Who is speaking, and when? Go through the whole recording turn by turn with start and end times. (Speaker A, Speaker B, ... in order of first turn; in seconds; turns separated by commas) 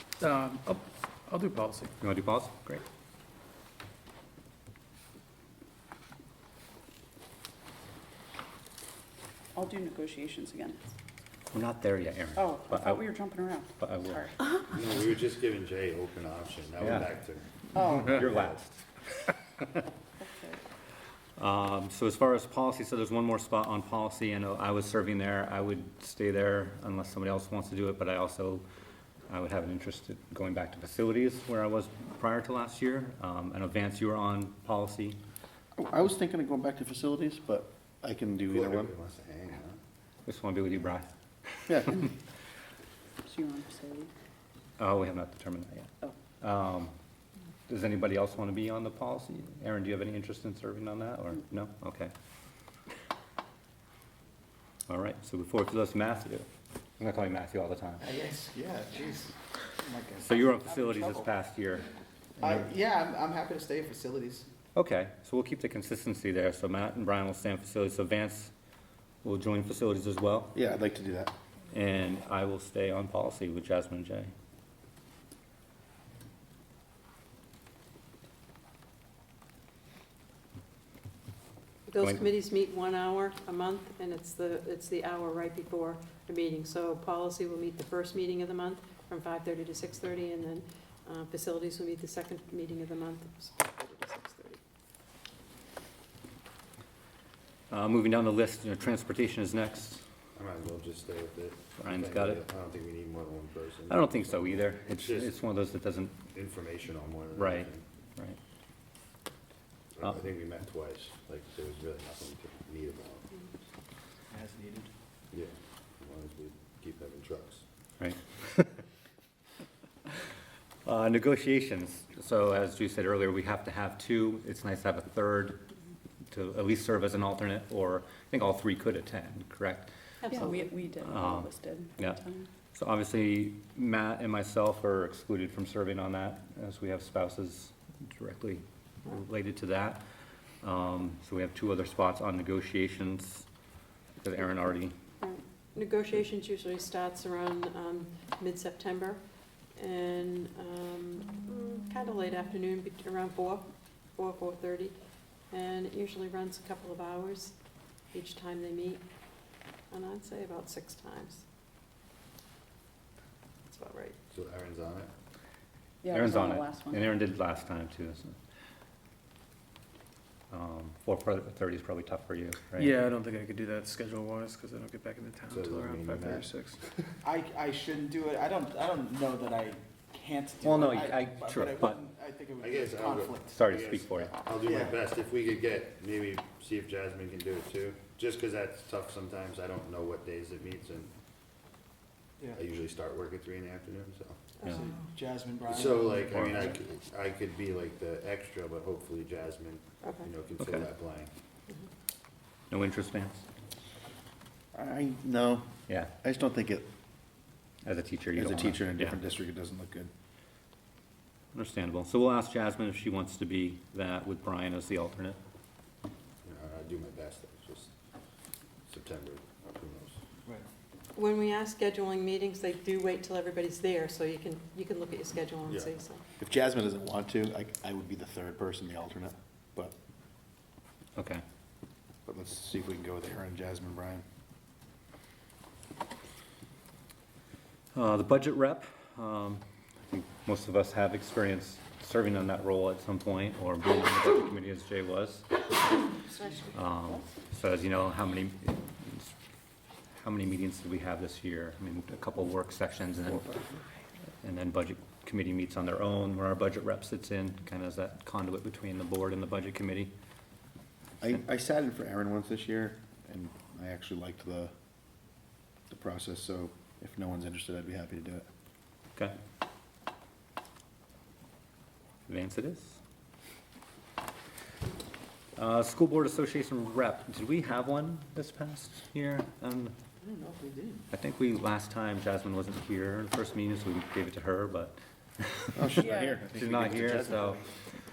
Speaker A: 0.2-1.9, Speaker B: 2.0-2.8, Speaker C: 9.6-10.9, Speaker B: 11.5-13.1, Speaker C: 12.4-14.7, Speaker B: 13.8-14.3, Speaker D: 14.7-17.5, Speaker B: 16.8-17.1, Speaker C: 17.7-18.2, Speaker B: 18.0-19.8, Speaker C: 20.2-20.6, Speaker B: 21.4-28.6, Speaker B: 29.3-35.2, Speaker E: 35.8-38.9, Speaker D: 38.5-39.8, Speaker B: 40.3-42.0, Speaker E: 41.7-42.1, Speaker C: 43.2-44.1, Speaker B: 44.8-46.9, Speaker B: 47.7-52.1, Speaker B: 54.9-56.5, Speaker B: 57.0-58.0, Speaker F: 58.0-61.2, Speaker B: 60.2-61.9, Speaker F: 62.4-64.5, Speaker B: 64.8-68.5, Speaker B: 69.2-70.5, Speaker E: 70.5-71.3, Speaker B: 71.7-74.3, Speaker G: 81.9-94.6, Speaker B: 97.7-100.0, Speaker D: 100.4-105.4, Speaker B: 101.8-102.4, Speaker B: 103.9-106.2, Speaker D: 106.3-107.8, Speaker B: 107.3-108.4, Speaker D: 110.0-113.5, Speaker F: 114.3-114.9, Speaker D: 115.3-117.6, Speaker B: 118.0-118.8, Speaker B: 120.8-125.6, Speaker B: 126.3-129.9, Speaker G: 130.2-130.7, Speaker C: 130.3-132.5, Speaker B: 131.0-132.2, Speaker B: 132.7-140.0, Speaker B: 140.6-143.5, Speaker B: 144.2-144.9, Speaker G: 145.2-149.2, Speaker G: 149.8-153.7, Speaker G: 154.2-155.0, Speaker G: 155.5-157.5, Speaker G: 158.1-159.0, Speaker G: 159.9-161.4, Speaker G: 163.7-164.2, Speaker D: 164.3-165.1, Speaker C: 166.0-167.2, Speaker B: 166.1-168.4, Speaker B: 170.5-173.0, Speaker A: 172.7-176.9, Speaker D: 175.5-176.5, Speaker F: 177.2-183.5, Speaker B: 180.6-182.0, Speaker D: 182.6-191.1, Speaker B: 183.5-184.3, Speaker F: 184.6-185.0, Speaker D: 192.5-194.4, Speaker G: 194.6-194.9, Speaker F: 194.7-196.4, Speaker D: 195.7-201.3, Speaker G: 200.0-200.3, Speaker B: 200.6-200.9, Speaker B: 202.7-203.4, Speaker E: 204.7-205.7, Speaker E: 206.2-206.8, Speaker B: 207.8-209.2, Speaker E: 208.4-210.1, Speaker B: 211.5-215.4, Speaker D: 216.4-217.9, Speaker D: 218.9-220.2, Speaker G: 221.2-226.2, Speaker D: 225.7-225.9, Speaker E: 226.4-229.9, Speaker B: 231.2-231.4, Speaker E: 232.3-234.2, Speaker B: 237.9-245.5, Speaker G: 246.3-246.7, Speaker B: 246.7-249.3, Speaker B: 250.2-253.7, Speaker B: 254.4-260.1, Speaker E: 261.2-264.7, Speaker E: 265.9-268.5, Speaker B: 272.3-273.0, Speaker B: 275.6-279.9, Speaker F: 280.2-281.1, Speaker B: 281.1-287.6, Speaker E: 285.8-287.7, Speaker C: 286.0-286.3